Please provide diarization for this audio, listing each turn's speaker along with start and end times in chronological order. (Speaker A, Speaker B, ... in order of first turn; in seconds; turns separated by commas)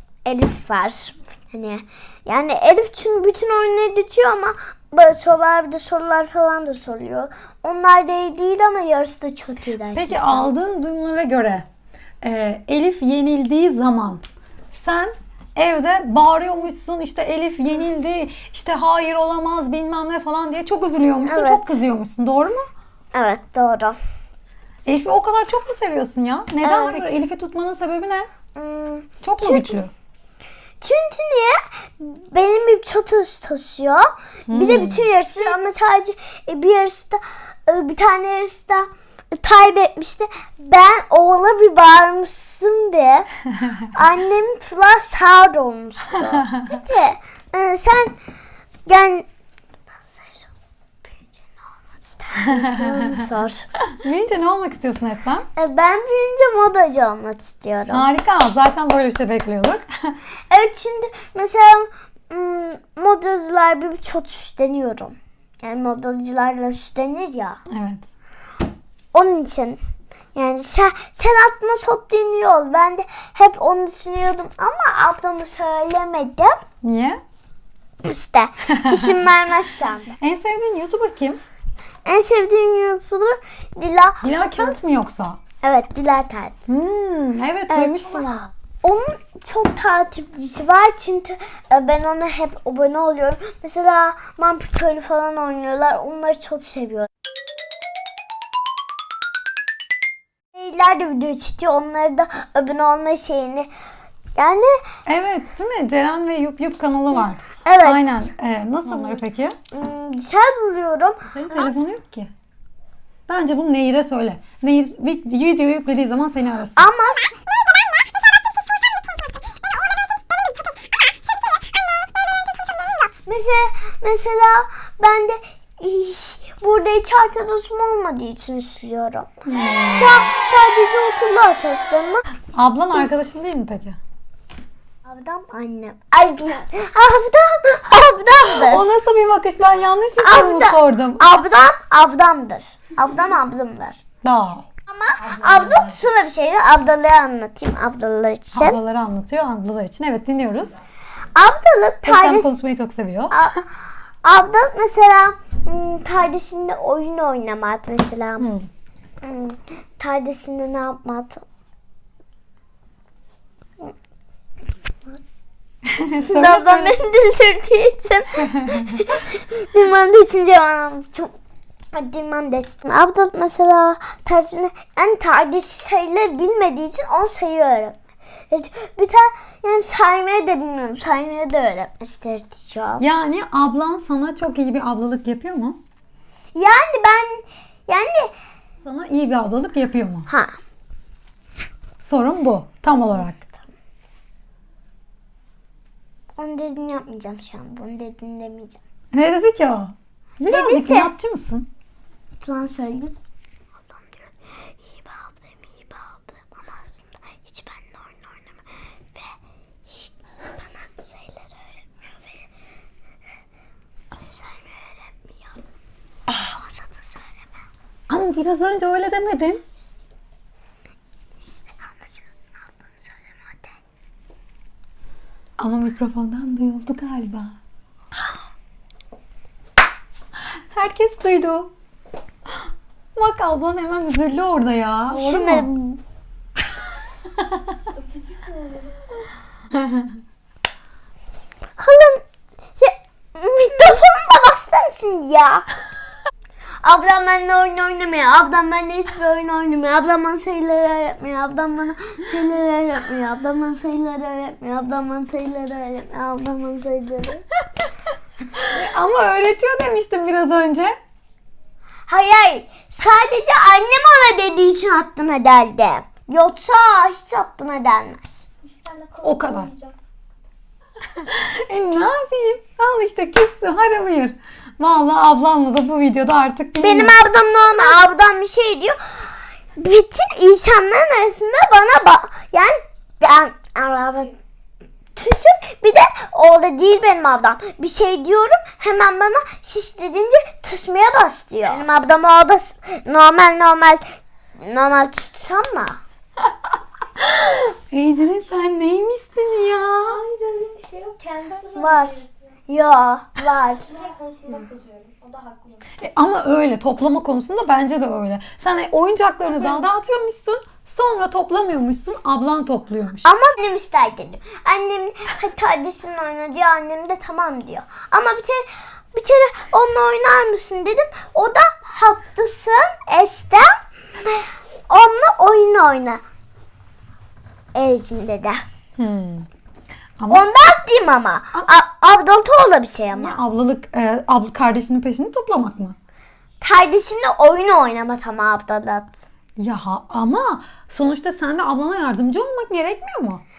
Speaker A: 0.2-10.5, Speaker B: 9.9-11.7, Speaker B: 12.2-22.7, Speaker A: 21.2-21.6, Speaker A: 23.1-24.0, Speaker B: 24.9-28.3, Speaker A: 26.6-27.1, Speaker A: 28.5-29.8, Speaker B: 29.2-29.9, Speaker A: 30.8-43.3, Speaker B: 34.5-35.1, Speaker A: 43.9-48.2, Speaker B: 46.3-46.7, Speaker A: 48.9-49.3, Speaker A: 50.0-50.5, Speaker A: 51.1-53.7, Speaker B: 52.4-53.2, Speaker B: 53.9-55.5, Speaker A: 55.5-58.0, Speaker B: 57.9-60.1, Speaker A: 60.5-67.6, Speaker B: 67.7-68.1, Speaker A: 69.1-69.8, Speaker A: 70.3-76.6, Speaker B: 76.8-77.2, Speaker A: 78.0-80.1, Speaker B: 78.7-79.2, Speaker B: 80.2-81.4, Speaker A: 82.0-84.8, Speaker B: 84.2-85.4, Speaker A: 85.6-86.7, Speaker B: 86.7-88.5, Speaker A: 87.7-97.1, Speaker A: 100.5-103.7, Speaker A: 104.3-104.8, Speaker B: 105.0-109.6, Speaker A: 107.6-108.3, Speaker A: 109.7-111.8, Speaker B: 111.2-112.3, Speaker B: 113.3-116.9, Speaker A: 116.8-129.3, Speaker B: 129.4-130.3, Speaker A: 129.9-132.2, Speaker B: 132.5-134.0, Speaker A: 135.0-138.9, Speaker B: 138.5-141.4, Speaker A: 140.2-144.0, Speaker B: 144.2-144.7, Speaker A: 144.9-148.8, Speaker B: 145.2-145.9, Speaker B: 148.5-150.7, Speaker A: 151.3-152.5, Speaker B: 152.0-153.4, Speaker A: 153.3-153.6, Speaker A: 154.2-158.5, Speaker B: 158.4-158.7, Speaker A: 159.2-161.4, Speaker B: 165.8-166.9, Speaker A: 166.2-171.3, Speaker A: 171.9-178.0, Speaker A: 178.5-183.0, Speaker B: 183.0-185.8, Speaker A: 186.5-188.3, Speaker B: 188.8-190.3, Speaker A: 190.3-190.6, Speaker B: 192.0-193.4, Speaker A: 196.4-198.8, Speaker B: 199.1-201.7, Speaker A: 200.4-201.1, Speaker A: 202.4-203.1, Speaker A: 203.9-204.3, Speaker A: 204.8-209.3, Speaker A: 209.9-212.3, Speaker A: 214.1-215.6, Speaker A: 216.4-217.4, Speaker B: 218.1-219.6, Speaker A: 221.4-223.7, Speaker B: 225.6-227.5, Speaker B: 230.4-231.7, Speaker B: 233.2-235.7, Speaker A: 235.1-236.0, Speaker C: 237.9-239.1, Speaker B: 239.7-240.1, Speaker A: 241.8-242.2, Speaker A: 242.8-245.7, Speaker A: 246.8-257.4, Speaker B: 258.6-261.0, Speaker A: 262.1-268.5, Speaker C: 268.6-269.9, Speaker B: 269.2-269.7, Speaker B: 271.2-277.1, Speaker A: 276.8-284.3, Speaker A: 285.1-296.0, Speaker B: 297.2-300.2, Speaker C: 300.1-302.3, Speaker A: 301.8-303.9, Speaker C: 303.9-305.8, Speaker B: 306.0-313.3, Speaker A: 313.2-326.2, Speaker A: 327.7-328.6, Speaker B: 329.0-329.5, Speaker B: 330.2-330.4, Speaker A: 330.3-333.4, Speaker B: 333.1-335.9, Speaker A: 336.6-339.2, Speaker B: 339.6-343.4